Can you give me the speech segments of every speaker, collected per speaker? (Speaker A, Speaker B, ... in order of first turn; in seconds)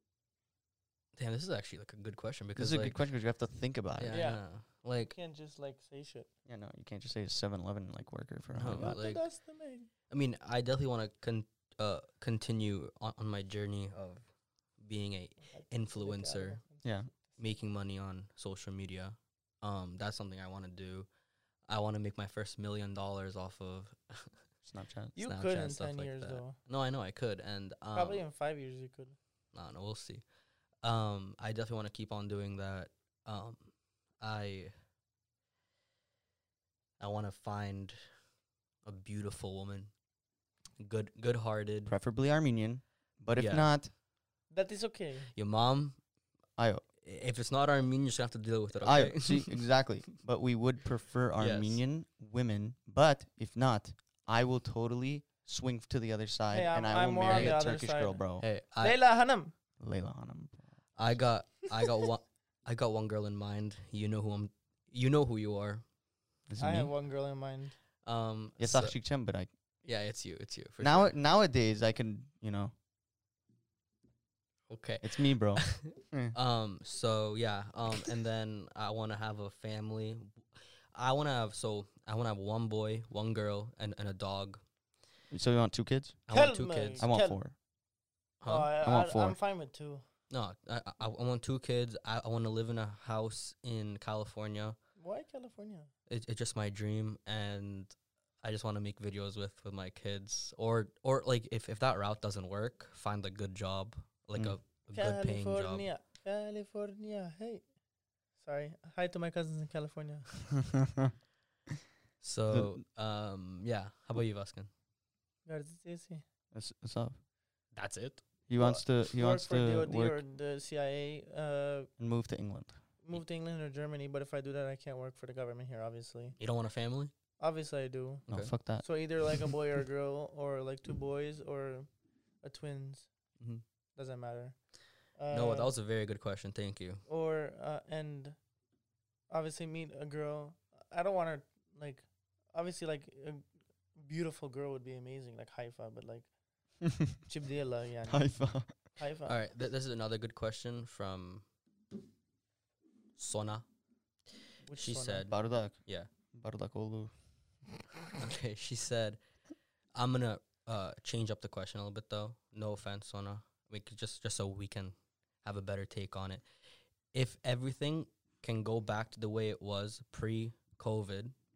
Speaker A: 1.1-3.0, 4.0-5.2, 8.5-9.2, 10.1-14.2, 14.8-16.6, 17.4-21.1, 21.7-24.4, 25.2-28.2, 29.5-30.2, 30.8-34.7, 37.0-38.0, 38.8-39.9, 40.8-41.9, 43.3-43.7, 45.3-46.0, 47.0-49.7, 51.4-51.8, 57.3-57.7, 58.4-59.0, 61.0-65.8, 68.0-68.9, 69.8-71.1, 74.7-84.6, 86.3-87.1, 88.4-88.7, 90.3-94.8, 96.1-105.9, 112.2-114.7, 117.7-118.2, 126.4-127.1, 135.3-137.0, 149.2-151.4, 153.2-153.6, 154.7-155.3, 158.1-159.2, 159.9-166.4, 167.1-171.3
Speaker B: 2.5-4.2, 6.5-9.0, 16.8-17.1, 24.6-25.1, 41.9-43.9, 46.6-46.8, 48.7-58.5, 59.8-60.7, 66.5-66.9, 68.6-69.5, 70.8-72.7, 75.0-76.3, 85.3-86.2, 87.0-87.5, 88.7-89.4, 110.7-111.1, 112.5-112.8, 116.5-117.2, 118.5-120.2, 122.0-122.8, 128.3-128.8, 148.1-148.7, 155.3-155.8, 156.3-157.1
Speaker C: 4.1-4.4, 5.1-6.3, 8.8-9.9, 15.5-17.4, 25.1-26.6, 27.9-29.2, 44.5-45.3, 56.5-58.2, 58.8-59.5, 66.6-67.7, 86.3-87.4, 88.5-90.0, 95.0-95.9, 104.9-107.6, 108.4-110.3, 115.5-116.2, 118.5-121.9, 123.0-126.3, 127.4-128.2, 128.8-131.9, 132.4-133.1, 133.9-134.6, 135.2-135.7, 137.1-138.4, 139.3-143.4, 143.9-146.3, 147.2-148.3, 148.9-149.4, 154.7-155.3